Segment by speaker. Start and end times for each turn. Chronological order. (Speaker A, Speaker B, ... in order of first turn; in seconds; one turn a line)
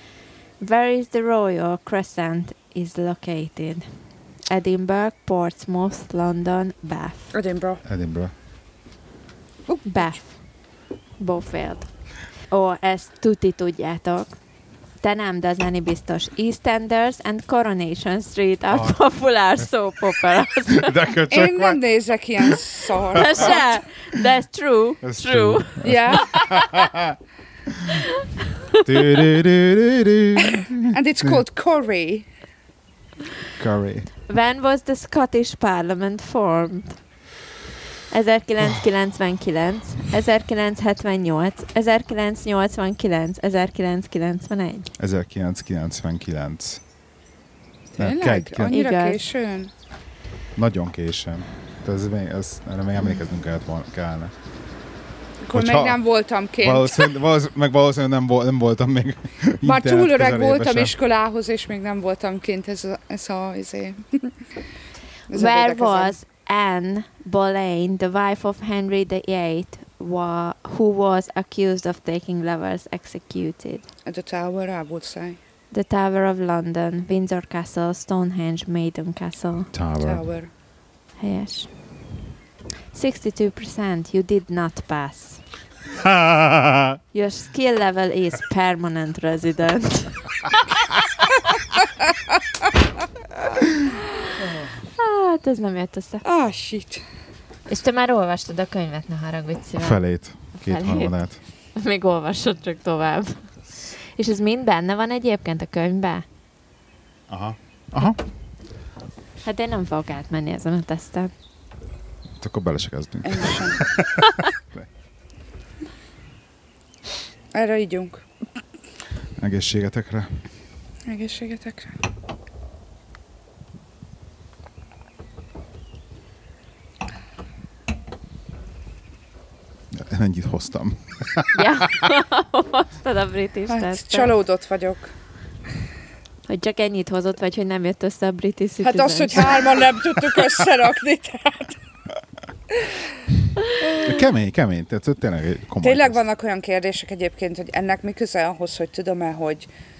Speaker A: 0.6-3.9
Speaker A: 4.5-7.3
Speaker B: 7.3-7.8
Speaker C: 7.8-8.3
Speaker B: 9.7-10.2
Speaker A: 9.8-10.6
Speaker A: 11.2-14.4
Speaker A: 15.0-20.9
Speaker C: 18.7-19.0
Speaker C: 20.7-21.8
Speaker B: 21.3-23.6
Speaker A: 23.1-26.8
Speaker C: 23.1-23.6
Speaker C: 25.0-27.1
Speaker B: 25.8-26.4
Speaker C: 27.7-28.0
Speaker A: 27.9-28.8
Speaker C: 28.8-31.4
Speaker B: 30.9-32.2
Speaker C: 33.6-34.1
Speaker A: 34.3-37.0
Speaker A: 38.1-44.9
Speaker C: 45.0-46.8
Speaker B: 47.9-49.7
Speaker C: 48.0-48.8
Speaker A: 48.6-49.2
Speaker C: 50.5-54.3
Speaker B: 55.4-57.1
Speaker C: 55.5-56.0
Speaker C: 56.6-60.9
Speaker B: 59.6-64.3
Speaker B: 65.3-66.1
Speaker A: 65.3-73.9
Speaker B: 74.0-75.4
Speaker A: 75.7-79.7
Speaker C: 79.7-80.2
Speaker B: 80.0-80.5
Speaker A: 81.2-81.7
Speaker A: 82.9-85.4
Speaker C: 86.0-87.0
Speaker A: 87.1-90.5
Speaker A: 94.9-96.2
Speaker B: 96.2-97.0
Speaker A: 97.7-100.0
Speaker C: 99.8-101.4
Speaker A: 100.5-101.2
Speaker A: 101.7-106.2
Speaker C: 107.3-108.2
Speaker A: 109.4-111.3
Speaker C: 112.4-114.9
Speaker B: 113.2-113.8
Speaker B: 117.5-118.2
Speaker C: 119.4-120.4
Speaker B: 121.1-122.0
Speaker C: 129.9-131.8
Speaker A: 131.5-134.3
Speaker B: 133.7-135.1
Speaker A: 136.4-139.7
Speaker B: 138.8-141.8
Speaker B: 143.8-144.2
Speaker C: 144.0-146.2
Speaker B: 145.8-149.7